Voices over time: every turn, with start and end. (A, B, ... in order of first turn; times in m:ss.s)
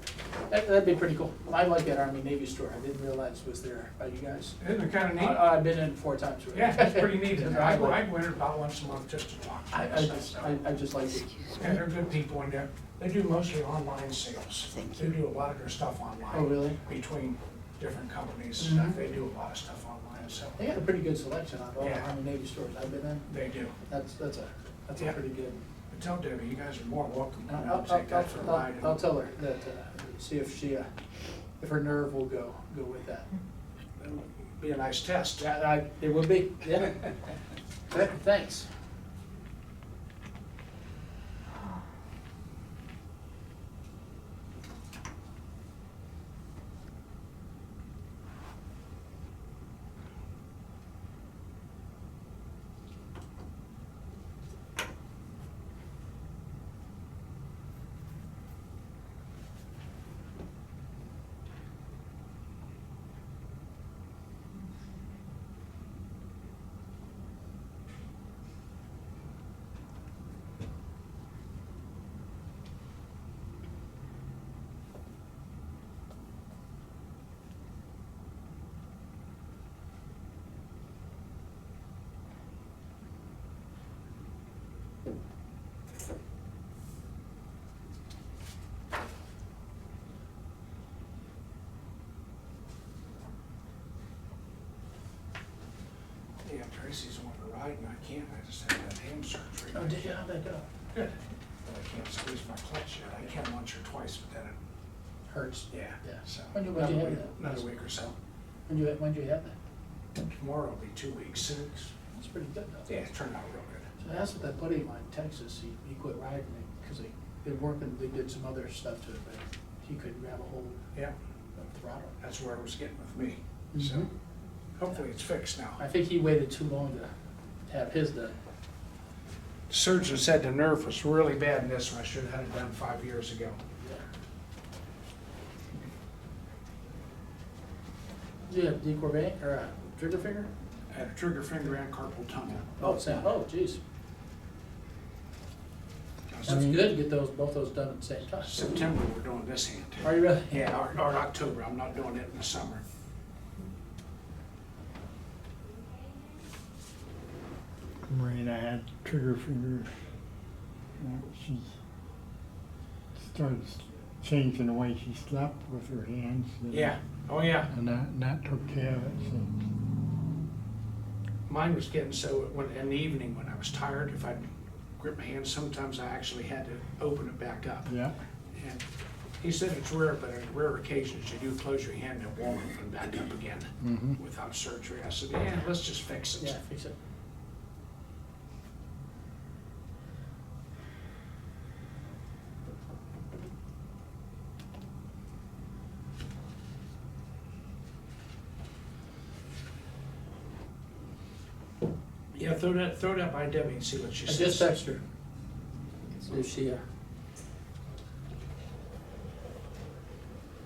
0:00.5-0:04.6 A
0:04.6-0:05.4 B
0:05.2-0:08.0 A
0:06.5-0:10.6 B
0:09.7-0:11.6 A
0:11.6-0:20.6 B
0:16.3-0:16.8 A
0:18.6-0:19.0 A
0:20.6-0:23.3 A
0:21.8-0:22.1 B
0:23.3-0:23.7 B
0:23.9-0:25.6 A
0:25.9-0:29.0 B
0:27.5-0:30.9 A
0:31.6-0:33.3 A
0:34.0-0:35.5 B
0:35.4-0:37.1 A
0:37.9-0:38.7 A
1:36.4-1:40.1 B
1:39.7-1:40.7 A
1:40.9-1:44.6 B
1:45.3-1:47.7 A
1:45.7-1:48.2 B
1:48.7-1:49.5 A
1:50.2-1:51.9 B
1:52.1-1:52.9 A
1:52.9-1:53.9 B
1:54.0-2:00.8 A
2:01.6-2:02.1 A
2:02.2-2:04.1 B
2:03.7-2:04.1 A
2:04.8-2:05.8 B
2:05.8-2:07.1 A
2:07.7-2:08.3 A
2:09.7-2:13.6 B
2:18.5-2:20.5 A
2:20.9-2:23.1 B
2:22.8-2:23.8 A
2:26.3-2:26.8 B
2:26.4-2:28.6 A
2:28.4-2:32.8 B
2:30.0-2:30.6 A
2:38.0-2:39.9 C
2:41.0-2:41.7 C
2:43.2-2:46.9 C
2:46.7-2:47.7 B
2:47.7-2:49.6 C
2:51.5-2:57.9 B
2:57.8-2:58.2 C
2:58.5-2:58.8 B
2:59.4-3:06.5 B
3:03.8-3:04.2 C
3:06.4-3:06.9 A
3:22.3-3:24.8 B
3:24.3-3:25.0 A
3:26.2-3:26.8 A